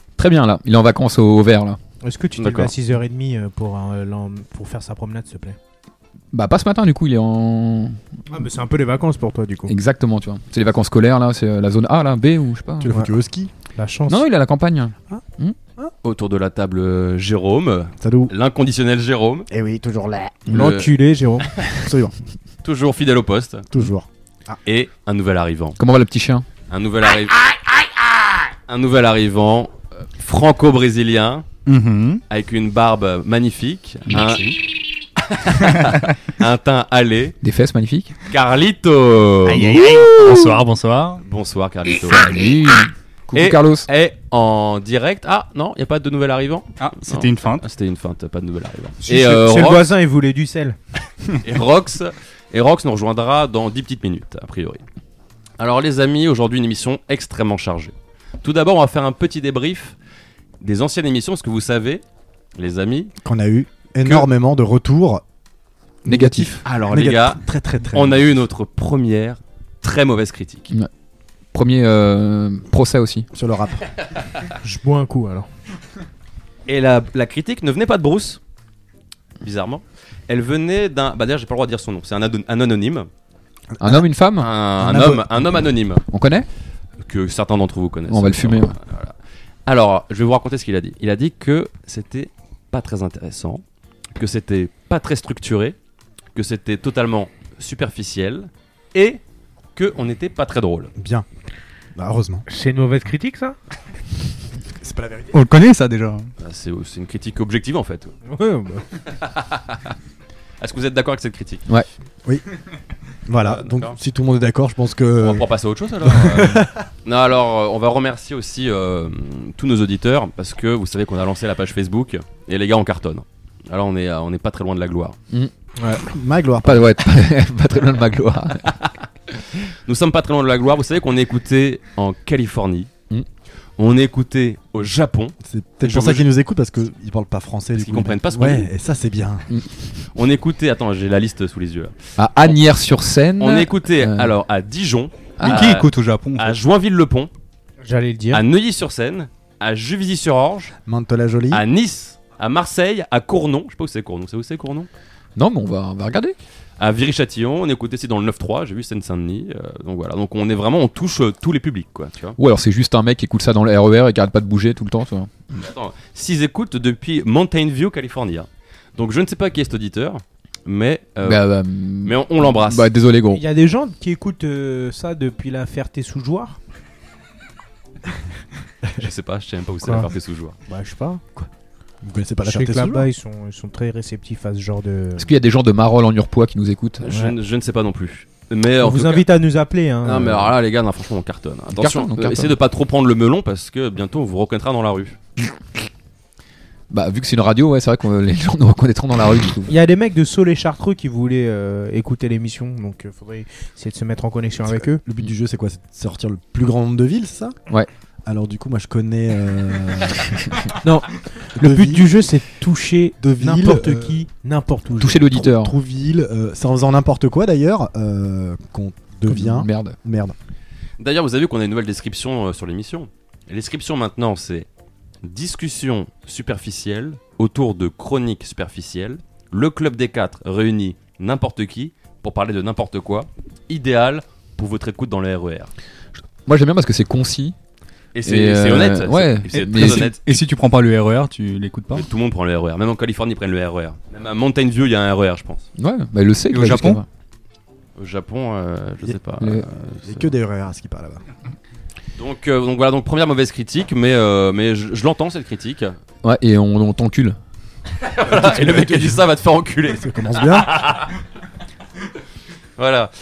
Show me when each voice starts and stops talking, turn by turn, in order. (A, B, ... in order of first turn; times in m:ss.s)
0:00.2-0:01.8 A
0:02.0-0:05.6 B
0:02.4-0:02.7 C
0:06.3-0:08.0 A
0:08.3-0:09.7 B
0:09.7-0:12.9 A
0:12.8-0:13.5 D
0:13.7-0:14.2 B
0:14.1-0:15.6 A
0:16.0-0:19.5 C
0:18.0-0:18.3 D
0:19.5-0:20.5 D
0:20.5-0:21.5 B
0:20.5-0:20.9 C
0:21.8-0:22.1 D
0:22.6-0:23.7 C
0:23.7-0:24.6 D
0:24.6-0:25.8 C
0:25.8-0:26.4 A
0:26.7-0:27.5 C
0:28.7-0:31.4 C
0:31.6-0:32.2 E
0:32.3-0:34.6 C
0:34.1-0:34.6 E
0:35.2-0:37.4 C
0:37.4-0:38.1 A
0:38.3-0:39.8 C
0:39.4-0:41.2 E
0:41.2-0:42.5 C
0:42.0-0:43.9 A
0:43.3-0:49.9 C
0:46.8-0:47.6 E
0:49.0-0:50.8 B
0:51.4-0:54.8 C
0:55.6-1:00.0 C
1:00.6-1:02.0 C
1:02.6-1:03.1 C
1:03.2-1:05.2 D
1:06.0-1:08.2 D
1:06.1-1:06.6 A
1:06.6-1:07.4 C
1:07.9-1:10.7 C
1:11.5-1:13.3 A
1:13.3-1:13.8 D
1:14.6-1:15.5 B
1:16.7-1:18.4 C
1:19.4-1:23.1 C
1:23.7-1:24.0 D
1:23.8-1:25.2 A
1:24.4-1:26.0 C
1:24.8-1:25.2 D
1:26.1-1:26.5 A
1:27.0-1:29.1 C
1:28.1-1:28.7 A
1:29.7-1:33.6 C
1:34.2-1:35.8 C
1:36.3-1:39.2 C
1:39.7-1:40.9 C
1:41.0-1:41.2 D
1:41.9-1:42.4 D
1:42.5-1:43.6 B
1:44.8-1:45.4 D
1:45.3-1:46.3 E
1:46.4-1:48.1 C
1:48.3-1:48.8 B
1:49.0-1:49.9 C
1:50.6-1:51.6 C
1:53.3-1:55.5 D
1:53.4-1:54.0 C
1:55.2-2:05.2 C
1:56.0-1:56.7 D
2:05.9-2:06.8 D
2:06.6-2:08.7 A
2:08.8-2:12.9 C
2:13.8-2:16.3 C
2:15.4-2:19.5 D
2:17.8-2:18.7 C
2:20.1-2:21.9 C
2:22.2-2:24.3 A
2:23.4-2:27.3 C
2:25.4-2:25.8 A
2:25.4-2:26.5 E
2:27.8-2:28.4 B
2:28.3-2:30.7 C
2:30.8-2:31.6 D
2:31.5-2:34.9 C
2:35.4-2:36.4 A
2:36.8-2:42.4 C
2:42.4-2:45.3 A
2:45.5-2:51.5 C
2:51.2-2:53.4 A
2:52.0-2:52.9 C
2:53.3-2:56.6 B
2:59.0-3:00.6 C
3:00.7-3:01.2 B
3:02.0-3:03.1 D
3:02.4-3:05.3 B
3:05.2-3:07.0 A
3:07.0-3:09.3 C
3:08.8-3:10.5 B
3:10.0-3:15.2 C
3:11.7-3:12.5 A
3:16.9-3:19.7 A
3:19.7-3:25.0 B
3:24.6-3:27.6 D
3:28.2-3:30.4 D
3:30.8-3:35.3 B
3:31.6-3:32.1 D
3:33.2-3:34.2 D
3:35.0-3:35.7 A
3:35.3-3:40.4 D
3:39.3-3:40.0 A
3:41.0-3:44.7 C
3:45.2-3:55.7 C
3:56.4-3:57.5 A
3:58.1-4:00.2 C
3:58.2-4:00.0 A
3:59.5-4:02.1 E
4:01.9-4:05.7 C
4:05.8-4:07.0 A
4:06.5-4:07.0 E
4:08.0-4:10.3 C
4:09.8-4:11.2 D
4:12.2-4:15.9 C
4:16.2-4:17.4 A
4:18.0-4:21.1 C
4:18.3-4:19.0 D
4:19.9-4:20.9 D
4:22.8-4:23.1 C